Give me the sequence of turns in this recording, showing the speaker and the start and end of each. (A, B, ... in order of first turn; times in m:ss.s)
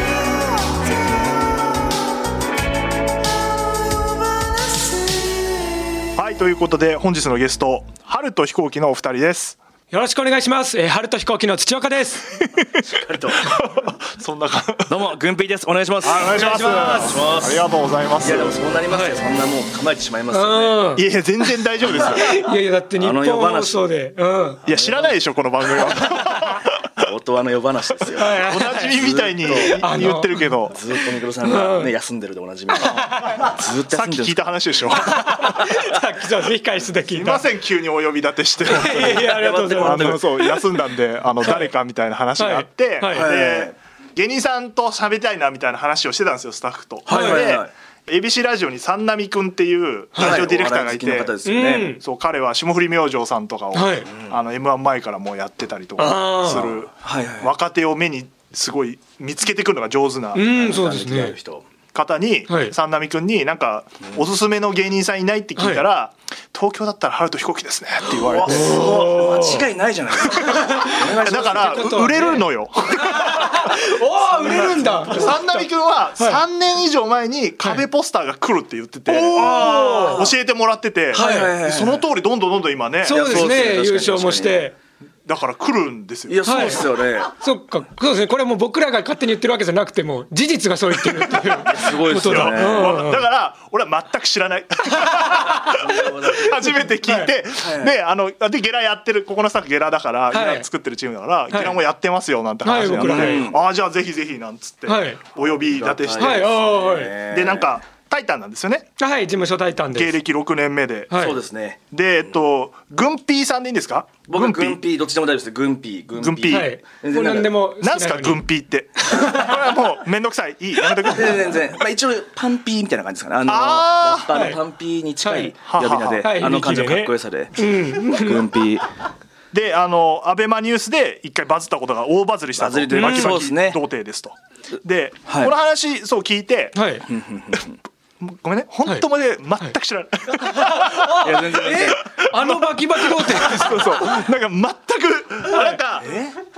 0:06.1-0:09.6 A
0:09.9-0:12.3 B
0:12.8-0:13.5 C
0:13.4-0:15.0 A
0:14.9-0:17.6 C
0:16.0-0:18.6 A
0:16.3-0:17.2 B
0:18.2-0:20.9 C
0:18.9-0:19.2 B
0:20.3-0:21.0 B
0:21.0-0:22.4 A
0:21.8-0:22.4 C
0:21.9-0:24.6 B
0:23.0-0:23.8 C
0:24.6-0:27.0 A
0:24.7-0:25.1 C
0:27.0-0:30.1 C
0:28.2-0:31.9 B
0:28.3-0:30.8 A
0:30.7-0:34.5 C
0:32.8-0:33.5 B
0:33.9-0:35.7 A
0:34.9-0:37.4 B
0:37.1-0:51.3 A
0:38.6-0:40.6 B
0:39.0-0:40.2 C
0:41.4-0:41.7 B
0:42.4-0:43.3 B
0:43.1-0:43.8 C
0:47.0-0:47.7 C
0:47.1-0:47.5 B
0:50.2-0:52.0 C
0:51.4-0:52.0 B
0:52.0-1:00.5 A
0:53.7-0:54.1 B
0:56.0-0:56.7 B
0:57.0-0:57.5 C
1:00.3-1:01.4 B
1:00.4-1:01.6 C
1:01.9-1:08.8 A
1:02.5-1:02.7 B
1:05.6-1:05.8 B
1:08.1-1:11.9 C
1:08.4-1:09.6 B
1:10.3-1:15.6 B
1:10.3-1:13.8 A
1:14.3-1:15.3 C
1:14.4-1:23.4 A
1:19.1-1:20.2 B
1:19.4-1:20.3 C
1:21.1-1:22.0 C
1:21.1-1:21.5 B
1:23.0-1:24.7 B
1:23.1-1:24.7 C
1:25.2-1:26.8 A
1:26.3-1:27.3 C
1:26.4-1:33.2 B
1:31.0-1:46.6 A
1:31.6-1:33.0 C
1:35.0-1:35.4 B
1:35.4-1:36.7 C
1:37.0-1:37.3 B
1:37.6-1:37.9 C
1:40.3-1:40.6 B
1:41.5-1:41.8 B
1:42.6-1:43.4 B
1:42.8-1:43.6 C
1:44.9-1:45.2 B
1:45.7-1:47.7 C
1:46.2-1:47.1 B
1:47.2-1:48.9 A
1:49.0-1:50.1 B
1:49.9-1:51.2 A
1:51.1-1:51.4 B
1:51.2-1:51.8 C
1:51.9-1:54.8 A
1:54.3-1:57.6 C
1:56.2-1:56.7 A
1:56.5-1:58.4 B
1:57.8-2:01.6 A
1:59.1-1:59.6 B
2:01.1-2:08.8 C
2:03.5-2:04.3 A
2:04.3-2:04.6 B
2:05.2-2:05.5 B
2:05.6-2:06.3 A
2:06.2-2:08.4 B
2:09.5-2:16.8 A
2:12.6-2:13.8 C
2:12.9-2:13.4 B
2:15.3-2:15.5 C
2:16.7-2:17.0 B
2:17.1-2:17.8 C
2:18.2-2:26.2 A
2:20.4-2:24.2 B
2:21.1-2:22.0 C
2:26.0-2:26.3 C